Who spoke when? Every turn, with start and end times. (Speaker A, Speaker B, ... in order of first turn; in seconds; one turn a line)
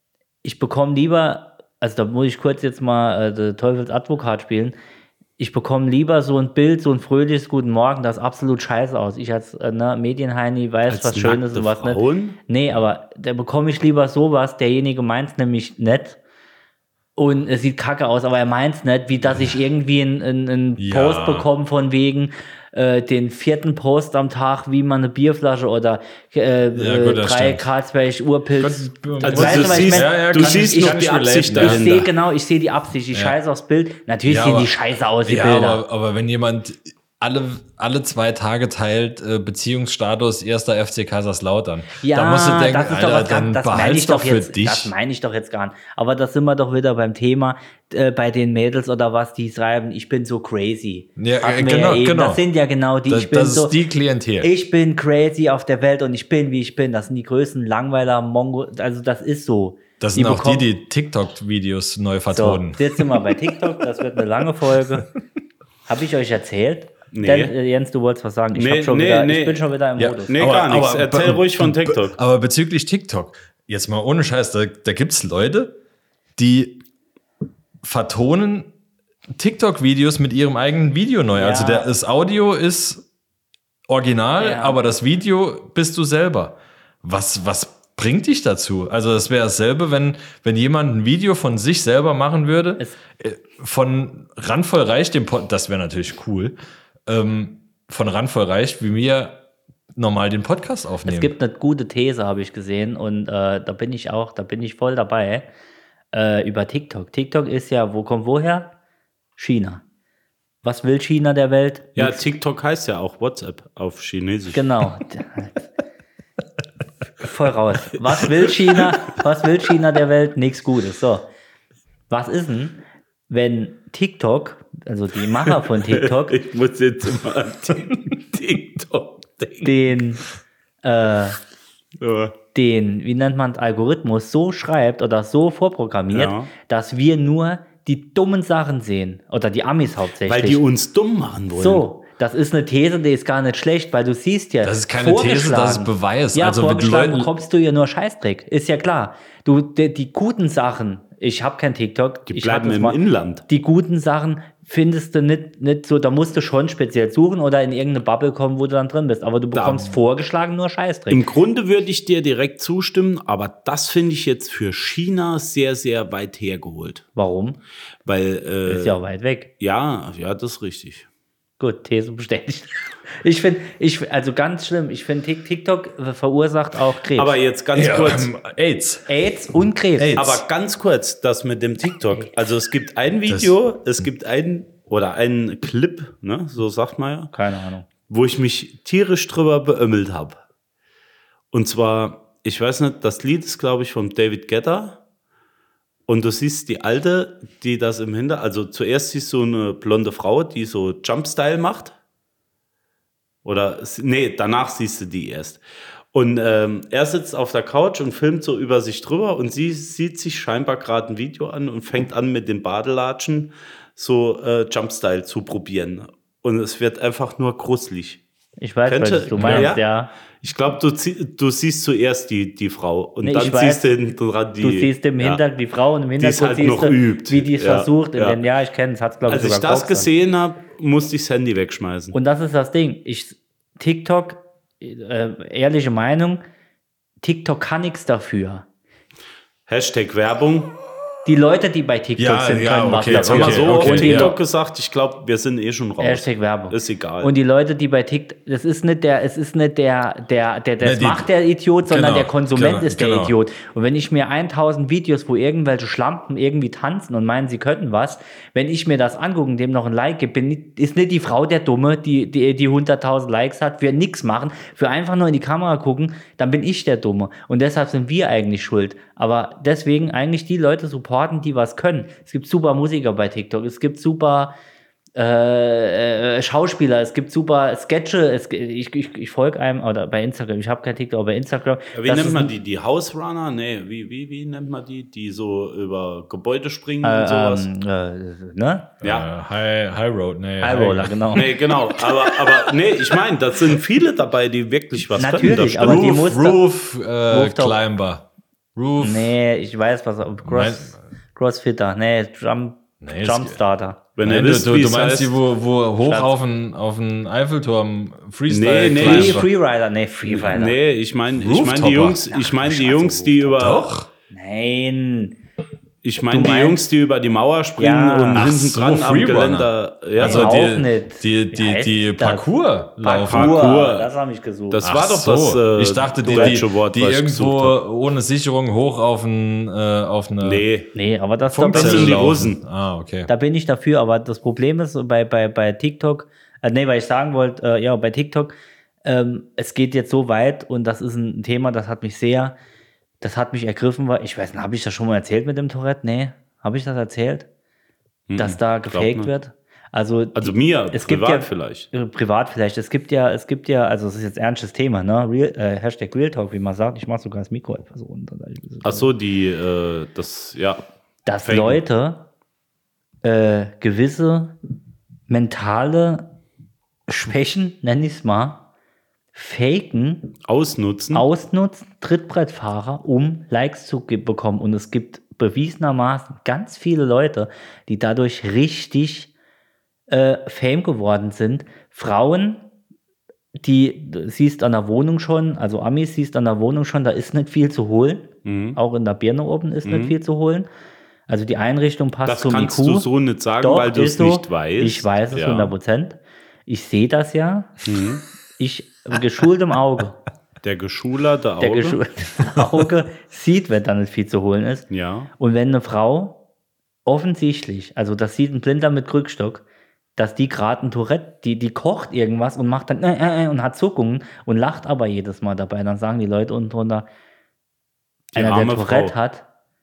Speaker A: 0.4-4.8
Speaker A: 5.4-16.2
Speaker B: 10.9-12.4
Speaker A: 17.2-35.8
Speaker C: 20.8-21.5
Speaker C: 26.8-27.7
Speaker C: 28.6-32.1
Speaker B: 29.2-32.0
Speaker C: 34.3-34.7
Speaker C: 35.2-44.9
Speaker A: 42.0-53.8
Speaker C: 51.2-52.4
Speaker C: 53.1-54.5
Speaker A: 54.4-60.7
Speaker C: 60.0-63.3
Speaker A: 62.3-65.1
Speaker A: 65.9-70.4
Speaker B: 67.1-67.5
Speaker B: 68.5-69.7
Speaker C: 70.0-75.8
Speaker B: 70.3-72.2
Speaker C: 76.4-76.8
Speaker C: 77.8-78.7
Speaker C: 79.3-83.1
Speaker A: 81.4-81.9
Speaker C: 83.9-96.5
Speaker A: 84.4-84.8
Speaker C: 97.1-99.4
Speaker C: 100.0-101.3
Speaker A: 101.0-105.5
Speaker A: 106.1-108.7
Speaker A: 109.4-109.8
Speaker A: 110.6-112.2
Speaker B: 112.0-114.7
Speaker A: 114.5-115.7
Speaker A: 117.2-121.3
Speaker A: 122.1-126.4
Speaker B: 125.4-129.7
Speaker A: 129.6-130.2
Speaker A: 130.8-131.4
Speaker B: 132.0-132.3
Speaker A: 132.5-140.6
Speaker B: 136.1-136.5
Speaker B: 140.3-141.8
Speaker A: 141.5-153.0
Speaker C: 144.6-147.3
Speaker B: 152.3-153.4
Speaker A: 153.5-161.2
Speaker B: 159.5-160.0
Speaker B: 161.1-167.1
Speaker A: 167.2-167.6
Speaker B: 168.1-169.0
Speaker A: 168.7-169.5
Speaker B: 169.6-171.1
Speaker A: 171.6-177.3
Speaker B: 177.2-178.3
Speaker C: 177.7-179.1
Speaker A: 179.1-180.2
Speaker C: 180.0-180.4
Speaker B: 180.2-187.3
Speaker C: 183.3-183.5
Speaker A: 187.3-187.9
Speaker B: 188.1-190.4
Speaker B: 191.5-195.0
Speaker B: 196.1-201.9
Speaker B: 203.4-205.6
Speaker B: 206.1-218.2
Speaker A: 218.6-220.1
Speaker B: 218.9-219.8
Speaker C: 219.4-219.8
Speaker B: 220.4-225.4
Speaker A: 223.2-223.9
Speaker A: 224.6-230.1
Speaker B: 226.2-228.4
Speaker B: 229.3-232.2
Speaker A: 232.1-236.4
Speaker A: 237.2-238.7
Speaker B: 239.7-240.8
Speaker A: 241.2-244.4
Speaker C: 242.2-244.4
Speaker B: 243.1-247.3
Speaker A: 246.0-274.5
Speaker C: 250.8-251.3
Speaker C: 251.9-253.3
Speaker A: 275.2-282.5
Speaker B: 281.9-287.7
Speaker A: 287.0-288.9
Speaker C: 289.0-291.4
Speaker B: 289.0-289.3
Speaker A: 290.6-291.5
Speaker B: 291.3-296.1
Speaker A: 295.2-296.6
Speaker C: 295.4-299.3
Speaker A: 297.3-297.8
Speaker A: 299.0-304.0
Speaker C: 300.5-301.0
Speaker C: 303.0-303.6
Speaker B: 304.2-305.4
Speaker C: 304.2-309.5
Speaker A: 306.0-306.4
Speaker B: 308.5-309.4
Speaker A: 309.0-310.8
Speaker B: 310.3-313.9
Speaker C: 311.3-312.4
Speaker A: 312.3-313.7
Speaker C: 313.6-314.1
Speaker A: 314.3-315.4
Speaker B: 316.0-320.7
Speaker A: 316.3-316.8
Speaker A: 317.8-318.4
Speaker C: 318.4-323.7
Speaker A: 320.2-322.5
Speaker A: 323.0-324.8
Speaker B: 323.2-324.1
Speaker B: 324.7-327.8
Speaker C: 324.8-330.6
Speaker A: 326.2-326.6
Speaker B: 330.4-330.9
Speaker A: 330.9-332.2
Speaker C: 331.5-333.3
Speaker B: 331.7-332.6
Speaker A: 333.3-342.6
Speaker A: 343.2-347.5
Speaker B: 348.3-349.3
Speaker A: 348.4-359.1
Speaker B: 350.4-351.9
Speaker B: 358.8-360.8
Speaker A: 361.3-362.3
Speaker B: 361.4-361.8
Speaker A: 363.2-364.6
Speaker A: 365.3-366.3
Speaker A: 367.1-368.6
Speaker A: 369.3-370.3
Speaker B: 370.5-371.3
Speaker A: 371.1-379.3
Speaker A: 380.1-382.6
Speaker A: 383.6-390.7
Speaker B: 388.4-388.8
Speaker B: 389.9-390.2
Speaker A: 391.3-393.1
Speaker B: 392.3-395.7
Speaker A: 393.6-397.8
Speaker B: 397.9-398.2
Speaker A: 398.6-400.2
Speaker B: 400.6-402.0
Speaker A: 401.6-404.9
Speaker B: 404.9-405.3
Speaker A: 405.4-406.4
Speaker A: 407.1-409.6
Speaker A: 410.2-417.1
Speaker B: 418.3-419.1
Speaker A: 418.4-419.4